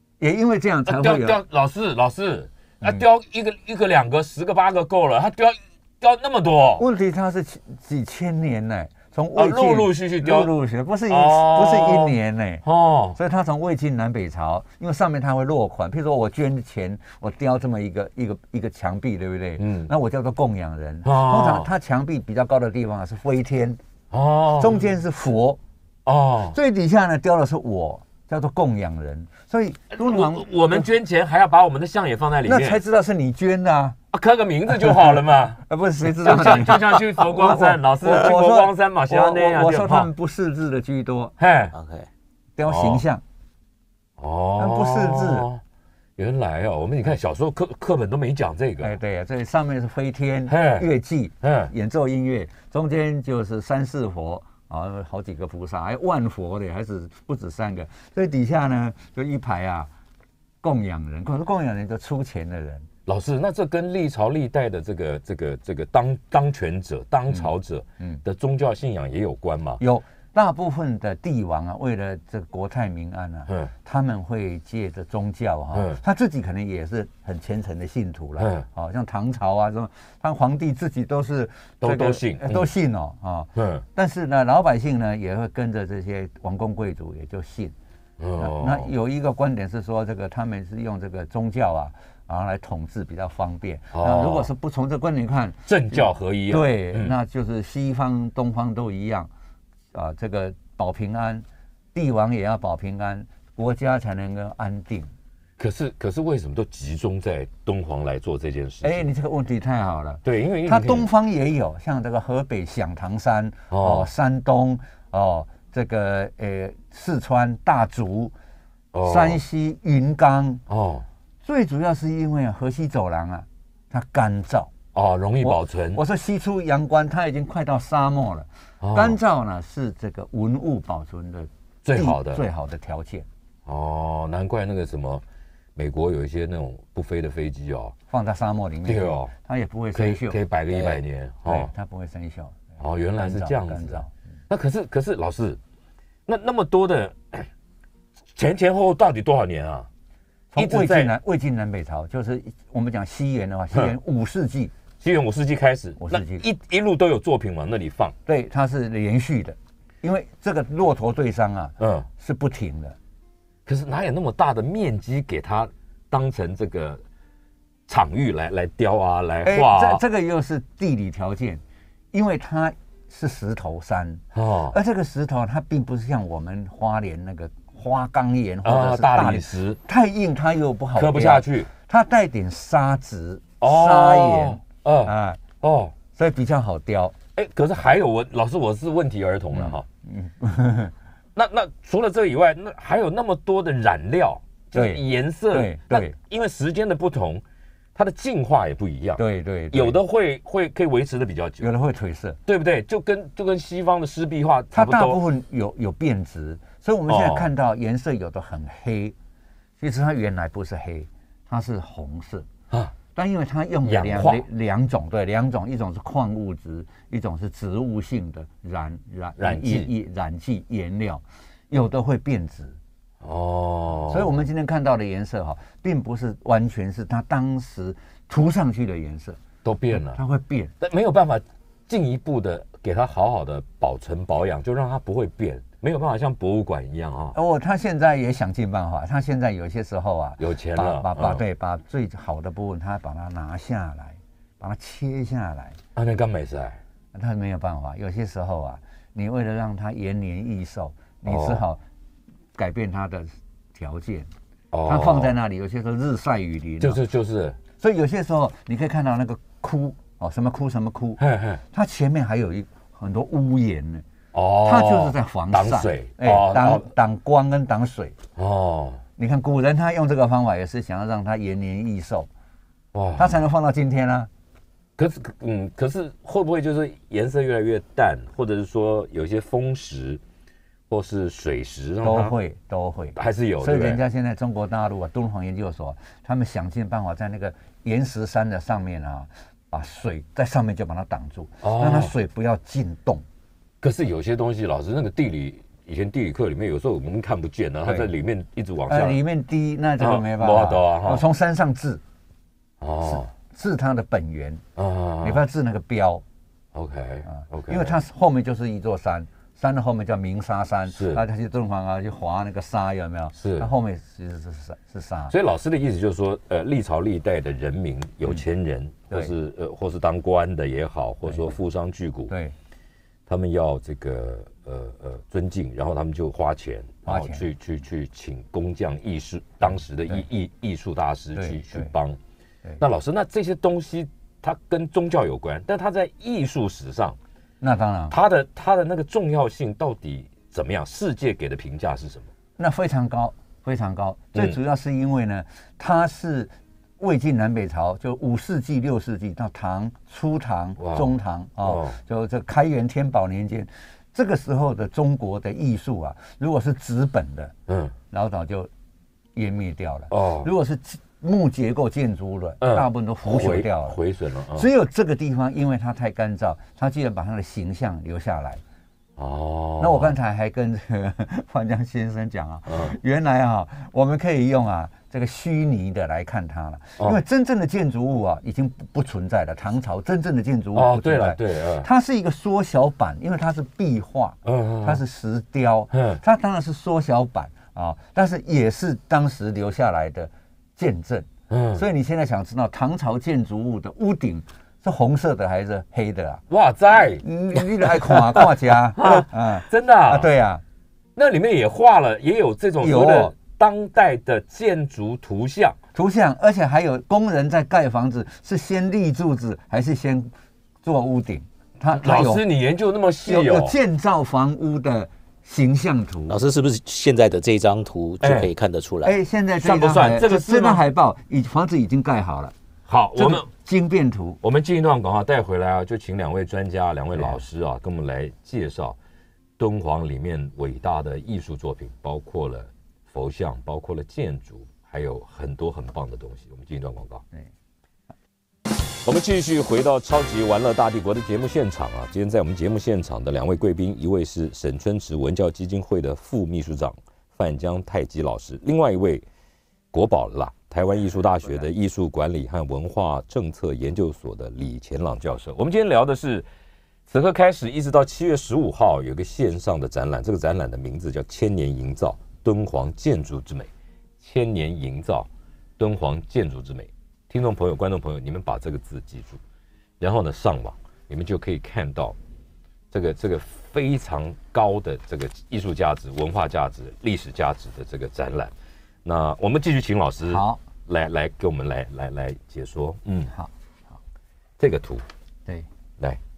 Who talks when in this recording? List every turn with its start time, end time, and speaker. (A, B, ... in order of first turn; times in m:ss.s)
0:00.2-0:01.4 A
0:00.9-0:06.8 B
0:06.8-0:12.6 A
0:09.4-0:10.5 B
0:11.1-0:13.2 B
0:13.2-0:23.8 A
0:19.6-0:19.9 B
0:21.1-0:21.7 B
0:24.1-0:24.8 B
0:24.6-0:25.6 A
0:26.0-0:26.6 B
0:26.5-0:30.9 A
0:30.0-0:32.8 B
0:32.4-0:34.0 A
0:34.1-0:40.1 B
0:35.7-0:41.3 A
0:41.4-0:41.7 B
0:41.7-0:42.1 C
0:42.6-0:43.2 A
0:42.7-0:43.0 B
0:44.2-0:45.6 B
0:44.6-0:45.5 A
0:46.2-0:48.9 B
0:48.8-0:59.9 A
0:50.5-0:50.8 B
0:51.4-0:51.7 B
1:00.6-1:02.9 A
1:03.1-1:09.8 B
1:09.8-1:27.7 A
1:15.7-1:16.0 B
1:18.4-1:18.6 B
1:21.8-1:22.7 B
1:23.6-1:23.8 B
1:28.2-1:28.9 B
1:28.4-1:39.3 A
1:33.9-1:34.5 B
1:35.7-1:37.1 B
1:39.9-1:45.1 A
1:45.6-1:49.1 B
1:48.8-1:58.3 A
1:50.2-1:51.1 B
1:53.7-1:54.1 B
1:58.9-1:59.4 B
1:59.0-2:00.6 A
2:00.7-2:01.0 B
2:01.4-2:04.7 A
2:04.9-2:06.0 B
2:05.4-2:13.3 A
2:08.8-2:09.2 B
2:11.8-2:12.4 B
2:13.7-2:15.2 B
2:15.8-2:18.0 B
2:18.1-2:24.1 A
2:18.8-2:19.3 B
2:19.9-2:21.7 B
2:22.8-2:25.6 B
2:26.3-2:27.5 B
2:28.4-2:29.9 B
2:30.5-2:34.7 A
2:30.6-2:31.1 B
2:35.0-2:38.2 B
2:36.0-2:36.4 A
2:38.3-2:43.0 A
2:41.8-2:42.1 B
2:43.7-2:47.0 B
2:47.9-2:50.0 B
2:49.4-3:05.4 A
2:54.3-2:54.8 B
2:58.6-2:59.8 B
3:01.0-3:01.7 B
3:03.6-3:06.0 B
3:06.1-3:07.2 A
3:07.4-3:09.8 B
3:09.5-3:10.9 A
3:11.4-3:17.4 B
3:14.7-3:16.2 A
3:18.0-3:21.7 B
3:19.2-3:20.0 A
3:21.6-3:22.4 A
3:22.5-3:25.2 B
3:24.7-3:29.2 A
3:27.1-3:27.5 B
3:29.8-3:32.5 A
3:33.1-3:42.8 A
3:33.8-3:34.4 B
3:39.4-3:39.9 B
3:43.2-3:44.4 B
3:44.1-3:49.4 A
3:49.6-3:50.2 B
3:49.9-3:50.7 A
3:50.8-3:57.4 B
3:57.3-4:05.8 A
4:00.4-4:01.4 B
4:06.0-4:06.8 B
4:07.1-4:11.8 A
4:11.3-4:11.6 B
4:12.6-4:14.3 A
4:14.7-4:15.3 B
4:14.9-4:17.0 A
4:16.8-4:17.6 B
4:17.8-4:21.2 A
4:21.2-4:21.6 B
4:21.7-4:24.0 A
4:24.3-4:26.9 B
4:24.6-4:28.2 A
4:28.4-4:29.0 B
4:29.2-4:32.3 A
4:32.9-4:33.4 B
4:33.2-4:34.3 A
4:35.0-4:40.2 B
4:40.9-4:42.3 B
4:42.0-4:53.2 A
4:43.2-4:44.0 B
4:51.6-4:52.1 B
4:53.8-4:59.2 B
4:57.8-4:58.1 A
4:58.9-5:02.0 A
5:00.0-5:01.2 B
5:02.8-5:03.3 B
5:03.0-5:04.6 A
5:04.8-5:05.4 B
5:05.2-5:06.2 A
5:06.7-5:08.0 B
5:07.3-5:15.3 A
5:10.9-5:11.2 B
5:13.4-5:13.7 B
5:15.3-5:22.3 B
5:21.3-5:21.5 A
5:22.3-5:22.5 A
5:23.3-5:32.2 B
5:27.1-5:27.5 A
5:31.4-5:31.9 A
5:32.8-5:37.2 B
5:37.6-5:38.2 A
5:38.1-5:42.3 B
5:42.6-5:57.5 A
5:50.8-5:51.1 B
5:51.6-5:52.0 B
5:57.7-5:57.9 B
5:58.1-5:58.7 A
5:59.4-6:04.0 A
6:00.1-6:00.5 B
6:02.6-6:04.7 B
6:04.6-6:08.6 A
6:09.2-6:10.1 B
6:09.8-6:36.4 A
6:12.7-6:13.0 B
6:20.7-6:21.9 B
6:24.4-6:25.0 B
6:25.9-6:26.2 B
6:31.5-6:31.8 B
6:36.5-6:40.3 B
6:37.2-6:40.6 A
6:41.2-6:45.8 B
6:42.8-6:43.3 A
6:45.9-6:50.3 A
6:50.8-6:52.4 A
6:51.9-6:53.8 B
6:53.2-6:56.4 A
6:56.3-6:59.2 C
6:58.2-6:58.5 B
6:59.0-7:02.5 A
6:59.6-7:00.8 B
7:02.9-7:03.5 B
7:03.2-7:04.4 A
7:04.4-7:09.0 B
7:09.6-7:17.2 B
7:19.0-7:29.3 B
7:29.9-7:36.5 B
7:37.1-7:43.7 B
7:44.2-7:45.3 B
7:45.8-7:49.4 B
7:50.0-7:52.2 B
7:52.9-7:58.5 B
7:59.0-8:03.3 B
8:00.3-8:00.6 A
8:04.6-8:05.0 B